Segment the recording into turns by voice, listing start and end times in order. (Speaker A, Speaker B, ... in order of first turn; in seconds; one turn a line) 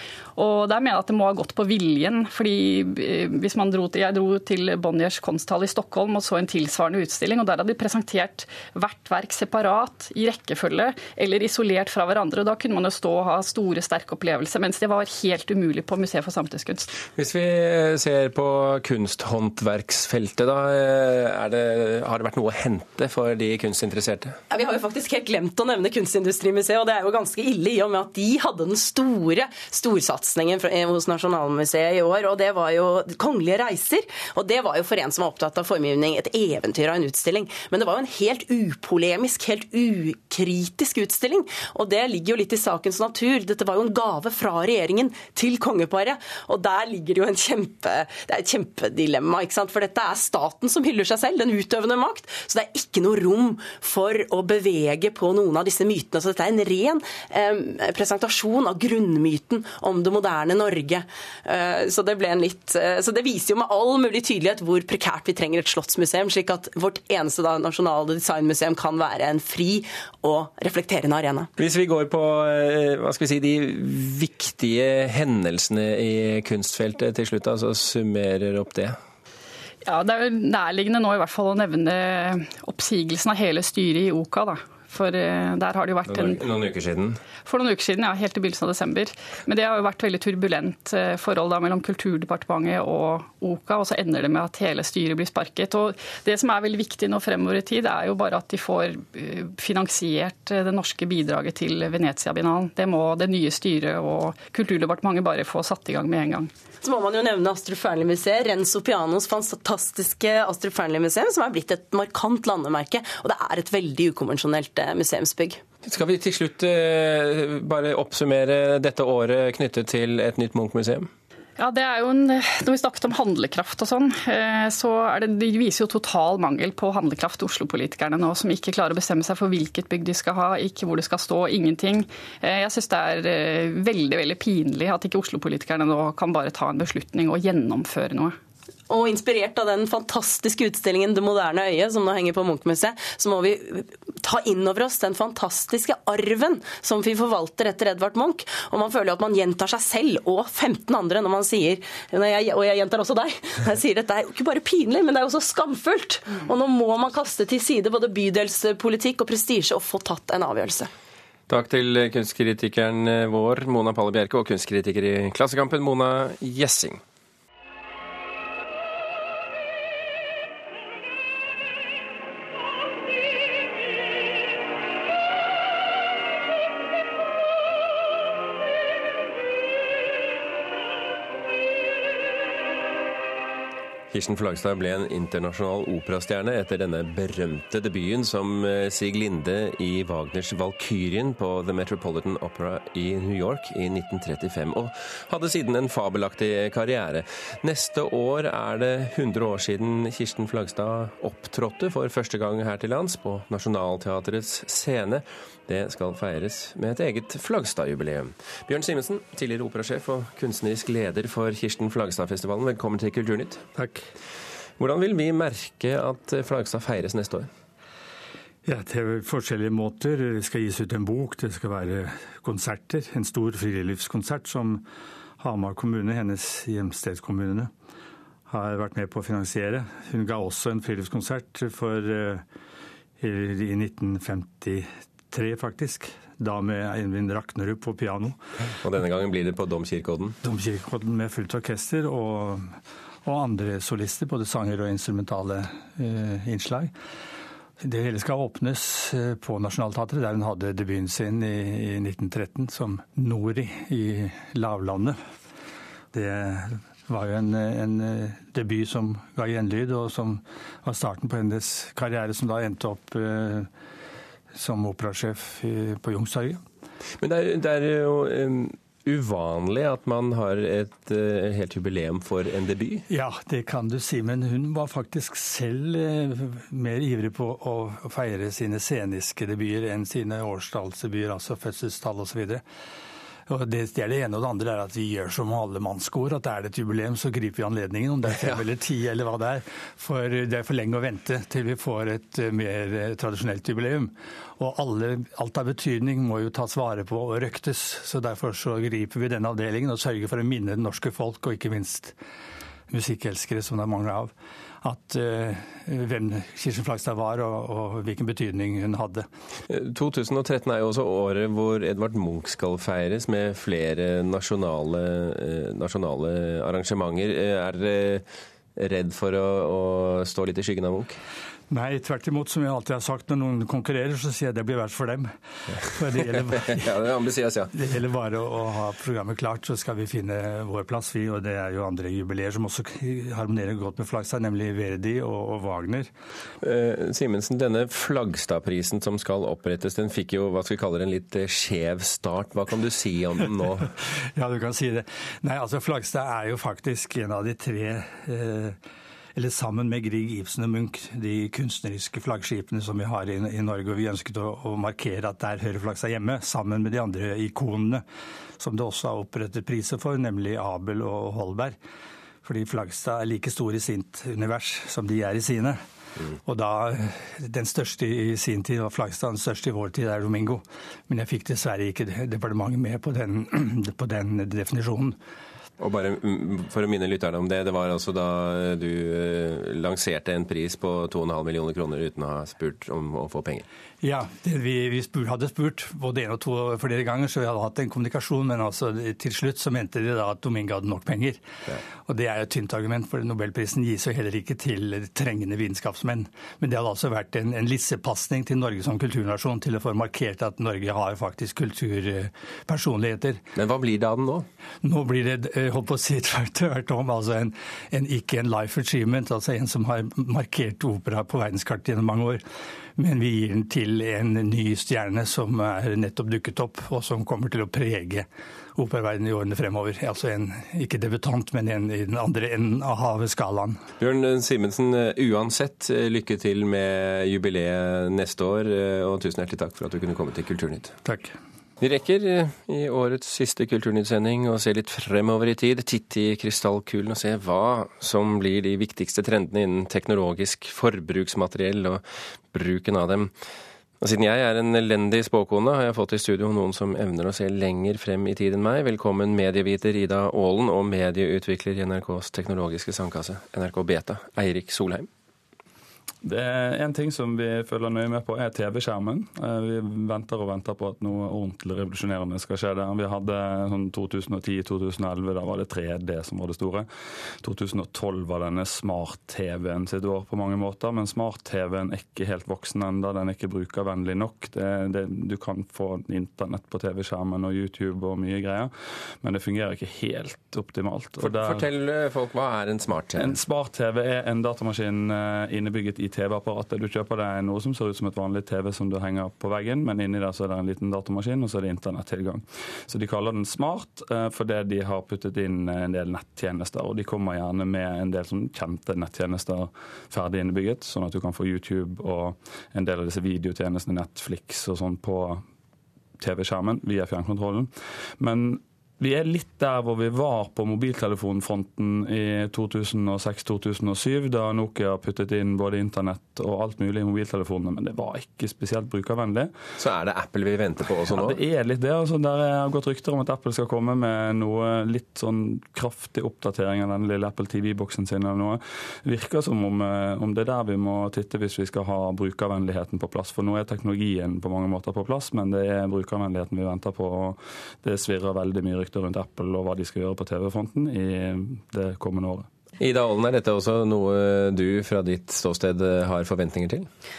Speaker A: 0.3-16.9
Speaker B: 17.1-24.4
Speaker C: 24.5-71.5
Speaker B: 71.6-79.0
Speaker A: 79.8-86.4
Speaker B: 86.1-87.2
Speaker A: 87.4-106.5
Speaker C: 106.8-115.6
Speaker B: 115.8-121.1
Speaker A: 121.6-138.3
Speaker C: 138.9-160.9
Speaker B: 161.5-167.0
Speaker B: 184.1-213.6
Speaker D: 213.7-214.1
Speaker B: 214.8-217.5
Speaker D: 218.6-224.8
Speaker D: 225.4-227.7
Speaker D: 228.5-232.4
Speaker D: 233.2-238.4
Speaker B: 238.8-240.3
Speaker D: 240.4-246.9
Speaker D: 247.8-255.2
Speaker D: 256.1-263.7
Speaker D: 264.5-266.6
Speaker B: 267.2-273.0
Speaker D: 273.1-282.6
Speaker D: 283.5-302.1
Speaker B: 288.3-288.6
Speaker D: 302.9-309.2
Speaker B: 309.7-318.2
Speaker B: 318.8-321.2
Speaker D: 321.7-325.3
Speaker D: 325.8-326.8
Speaker B: 326.2-327.7
Speaker D: 327.7-336.1
Speaker B: 336.6-343.9
Speaker D: 344.4-348.8
Speaker D: 349.4-358.0
Speaker D: 358.6-361.7
Speaker D: 362.4-365.8
Speaker D: 366.4-375.2
Speaker B: 375.8-383.6
Speaker D: 384.0-391.4
Speaker D: 392.0-403.4
Speaker B: 403.5-404.5
Speaker D: 404.8-412.4
Speaker D: 412.9-423.8
Speaker B: 424.0-430.9
Speaker D: 431.0-431.3
Speaker B: 431.8-443.3
Speaker B: 444.0-455.1
Speaker E: 456.2-466.9
Speaker E: 467.4-481.6
Speaker B: 481.2-483.4
Speaker E: 483.1-505.4
Speaker E: 506.2-519.5
Speaker B: 519.8-521.4
Speaker E: 521.1-542.5
Speaker B: 542.8-546.9